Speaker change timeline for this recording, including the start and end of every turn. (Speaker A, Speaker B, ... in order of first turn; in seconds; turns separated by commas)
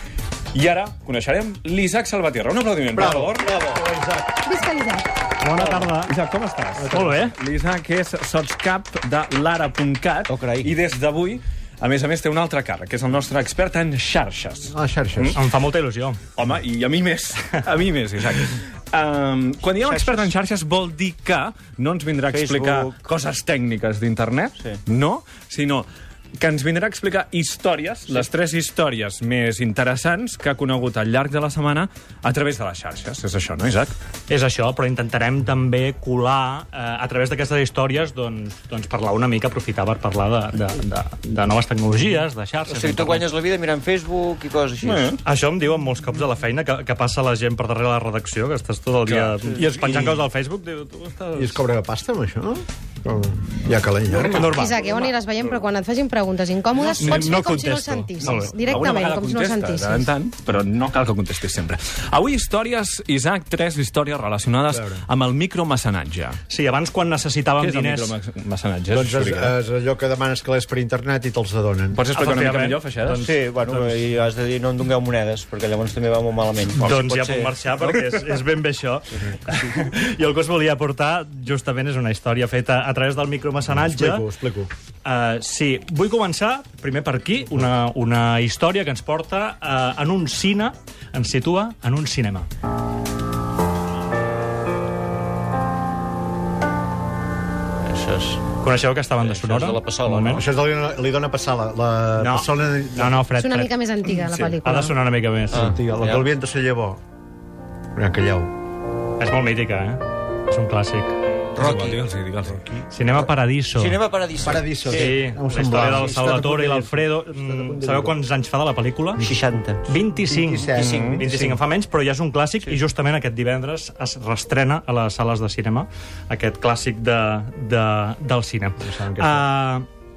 Speaker A: 0.5-3.5, Speaker B: 2.9-4.3, Speaker C: 3.4-3.8, Speaker D: 4.4-5.0, Speaker E: 5.4-6.1, Speaker A: 5.5-15.4, Speaker B: 6.8-7.1, Speaker E: 6.9-7.3, Speaker C: 10.3-10.7, Speaker B: 14.7-15.4, Speaker E: 15.3-16.2, Speaker A: 16.4-25.9, Speaker C: 19.9-20.3, Speaker C: 22.3-23.0, Speaker A: 26.4-33.9, Speaker E: 34.3-43.3, Speaker C: 42.7-45.1, Speaker A: 44.8-45.2, Speaker E: 45.2-51.6, Speaker A: 49.0-50.2, Speaker B: 51.3-54.6, Speaker A: 54.1-54.5, Speaker E: 54.2-55.2, Speaker D: 54.4-60.1, Speaker A: 56.8-66.4, Speaker E: 57.0-58.5, Speaker B: 64.7-65.0, Speaker E: 66.5-68.2, Speaker A: 67.6-69.5, Speaker B: 68.9-72.0, Speaker A: 71.9-73.3, Speaker E: 72.1-73.9, Speaker C: 73.2-77.5, Speaker E: 76.8-84.3, Speaker B: 83.8-84.7, Speaker E: 85.0-92.5, Speaker C: 97.8-98.4, Speaker E: 98.6-100.4, Speaker C: 99.2-100.4, Speaker B: 100.3-103.2, Speaker E: 102.2-105.8, Speaker D: 103.3-104.9, Speaker C: 105.5-106.3, Speaker B: 105.5-107.0, Speaker B: 107.9-108.5, Speaker E: 109.2-111.2, Speaker C: 111.5-112.0, Speaker A: 111.5-112.7, Speaker E: 112.9-114.0, Speaker C: 113.8-116.6, Speaker B: 114.4-118.1, Speaker E: 114.8-119.2, Speaker C: 119.2-119.8, Speaker E: 119.9-129.9, Speaker B: 120.2-121.3, Speaker C: 120.7-121.6, Speaker B: 128.8-129.4